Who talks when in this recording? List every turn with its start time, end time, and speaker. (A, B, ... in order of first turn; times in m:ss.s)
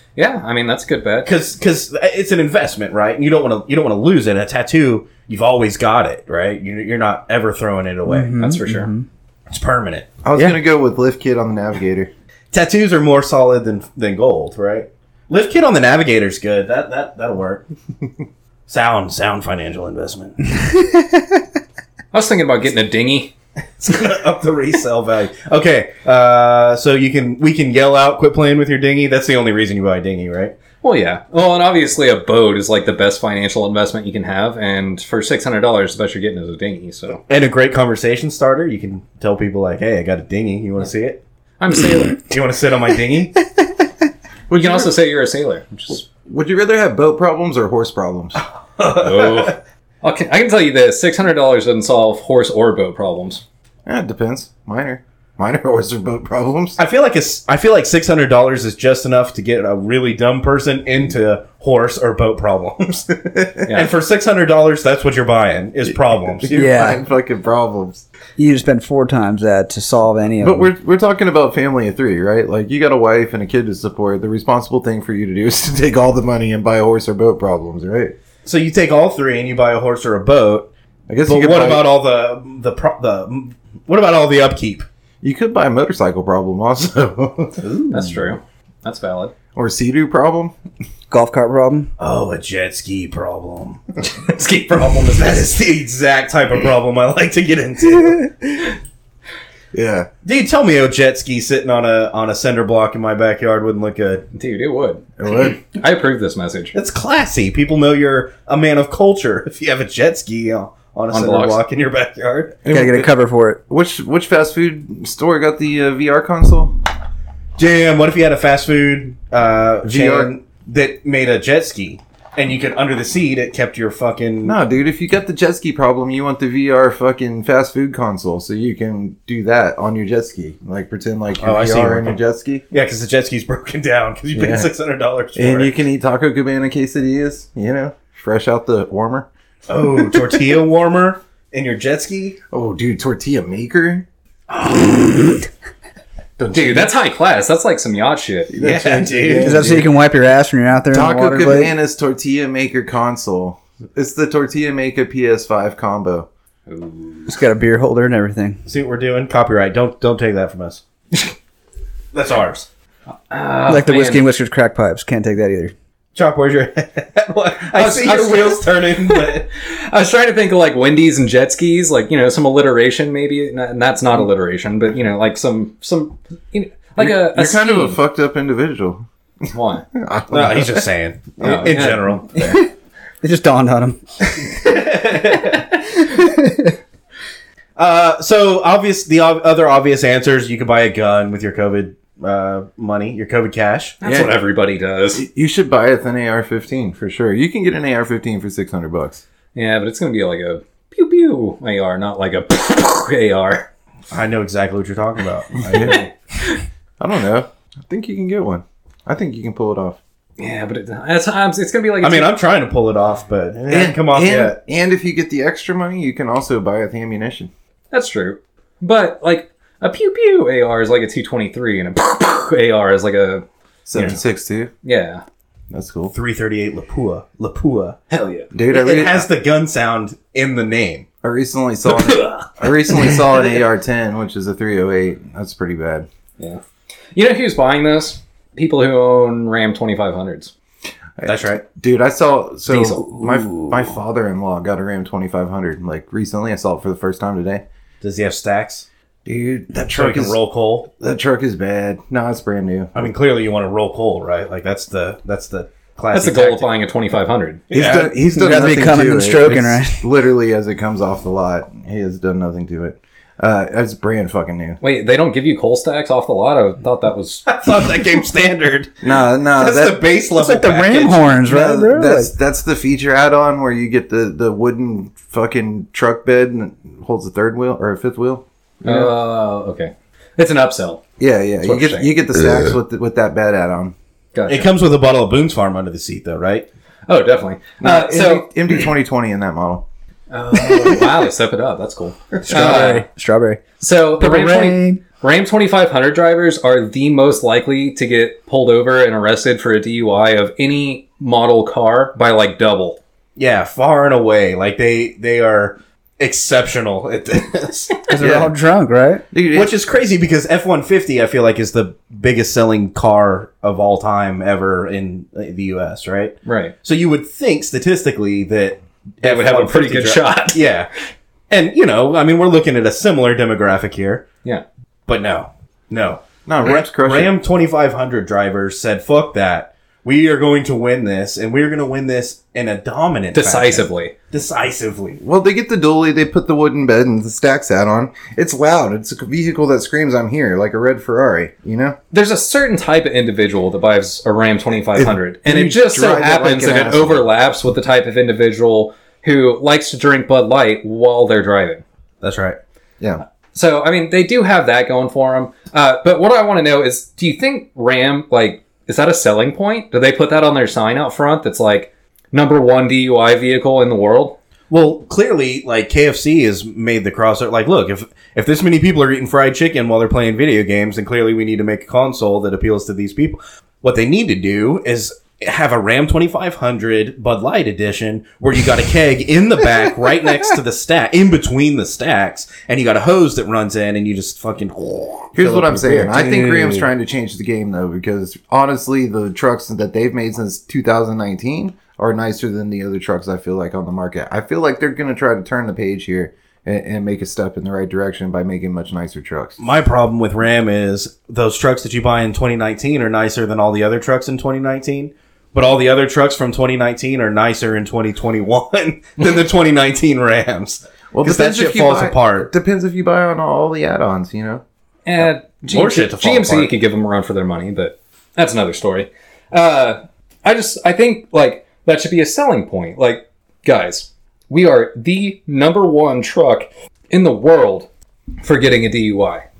0:00.2-0:01.3 A
0:01.2-0:08.4 B
0:08.1-0:09.0 C
0:08.4-0:08.9 A
0:09.5-0:10.6 B
0:10.2-0:12.1 D
0:12.5-0:17.6 B
0:18.7-0:20.4 B
0:22.1-0:23.3 A
0:23.8-0:30.5 B
0:30.8-0:37.2 A
0:37.3-0:41.2 B
0:41.6-0:42.2 A
0:42.2-0:43.4 B
0:44.5-0:44.9 D
0:44.5-0:46.0 A
0:46.2-0:48.4 D
0:48.8-0:49.5 B
0:48.9-0:53.4 A
0:53.8-0:56.8 D
0:56.8-1:06.5 B
1:05.9-1:08.0 D
1:06.5-1:07.0 C
1:08.4-1:10.7 C
1:10.4-1:18.1 D
1:18.4-1:20.7 B
1:21.1-1:21.8 D
1:21.2-1:24.8 B
1:25.2-1:27.7 D
1:27.6-1:28.2 B
1:27.9-1:29.3 A
1:29.5-1:30.5 D
1:31.1-1:31.9 C
1:32.0-1:33.8 B
1:34.0-1:35.5 A
1:34.9-1:38.3 B
1:39.7-1:40.1 D
1:40.2-1:44.2 B
1:44.3-1:45.0 A
1:45.2-1:45.6 D
1:45.7-1:46.7 A
1:46.7-1:52.6 B
1:51.1-1:51.6 A
1:52.6-1:53.1 D
1:52.7-1:53.6 C
1:53.7-1:56.7 D
1:57.6-2:04.6 B
1:59.8-2:00.3 D
2:04.4-2:12.6 D
2:11.4-2:12.1 B
2:12.7-2:15.7 B
2:14.3-2:14.7 D
2:15.4-2:20.4 D
2:19.7-2:22.4 B
2:22.5-2:24.0 D
2:24.5-2:25.3 B
2:26.4-2:26.9 D
2:26.5-2:28.5 A
2:28.5-2:29.8 D
2:28.6-2:29.9 B
2:29.4-2:31.7 C
2:30.9-2:36.3 D
2:36.7-2:37.4 A
2:37.3-2:38.6 C
2:38.6-2:41.3 B
2:42.1-2:42.7 B
2:43.3-2:44.2 A
2:43.7-2:45.7 C
2:46.1-2:49.4 B
2:47.7-2:58.0 A
2:57.0-2:59.0 D
2:59.5-2:59.9 A
2:59.9-3:00.9 D
3:00.3-3:02.5 B
3:01.4-3:01.7 D
3:01.4-3:02.2 A
3:02.3-3:02.7 C
3:03.2-3:04.6 C
3:04.4-3:05.7 B
3:05.5-3:06.7 C
3:07.8-3:14.0 B
3:14.0-3:15.2 A
3:14.0-3:14.4 D
3:15.2-3:19.2 D
3:19.5-3:23.7 A
3:24.1-3:26.0 B
3:25.7-3:26.6 A
3:27.0-3:30.0 D
3:30.4-3:32.3 A
3:32.0-3:34.6 B
3:33.7-3:37.5 D
3:37.9-3:43.4 A
3:43.9-3:44.7 D
3:44.8-3:45.2 A
3:45.7-3:46.1 D
3:46.1-3:48.0 B
3:48.1-3:48.5 A
3:48.5-3:49.3 D
3:48.7-3:51.0 B
3:51.2-3:56.1 D
3:51.9-3:52.5 A
3:57.1-4:00.5 A
4:01.2-4:07.6 D
4:01.2-4:01.6 B
4:02.7-4:03.2 A
4:08.0-4:08.8 B
4:09.2-4:10.4 D
4:09.9-4:10.9 B
4:10.9-4:13.1 D
4:12.9-4:16.7 B
4:16.1-4:17.6 A
4:17.7-4:18.1 B
4:17.7-4:24.8 D
4:18.1-4:20.0 C
4:24.8-4:27.9 A
4:27.4-4:31.3 B
4:29.0-4:30.0 D
4:30.3-4:32.3 C
4:31.5-4:39.1 D
4:38.8-4:41.0 A
4:41.2-4:43.9 D
4:41.6-4:42.1 A
4:44.3-4:44.7 A
4:44.5-4:46.7 B
4:47.1-4:48.5 A
4:47.8-4:49.8 D
4:50.3-4:53.0 A
4:52.5-4:53.6 C
4:53.8-5:03.0 A
4:54.2-4:55.0 C
5:03.4-5:08.1 B
5:08.1-5:09.2 C
5:08.2-5:08.5 D
5:09.3-5:09.7 D
5:09.5-5:20.9 B
5:16.4-5:16.7 A
5:19.2-5:20.6 A
5:21.5-5:24.2 B
5:25.1-5:35.2 B
5:26.4-5:27.4 D
5:33.3-5:34.1 A
5:35.2-5:42.0 D
5:42.1-5:51.8 A
5:45.0-5:47.2 D
5:52.2-5:52.6 B
5:53.5-6:04.4 A
6:04.7-6:26.0 B
6:25.3-6:39.6 D
6:25.8-6:26.8 C
6:39.6-6:52.5 B
6:51.1-6:54.6 D
6:55.0-7:07.9 A
6:55.2-6:56.7 B
7:08.4-7:09.4 A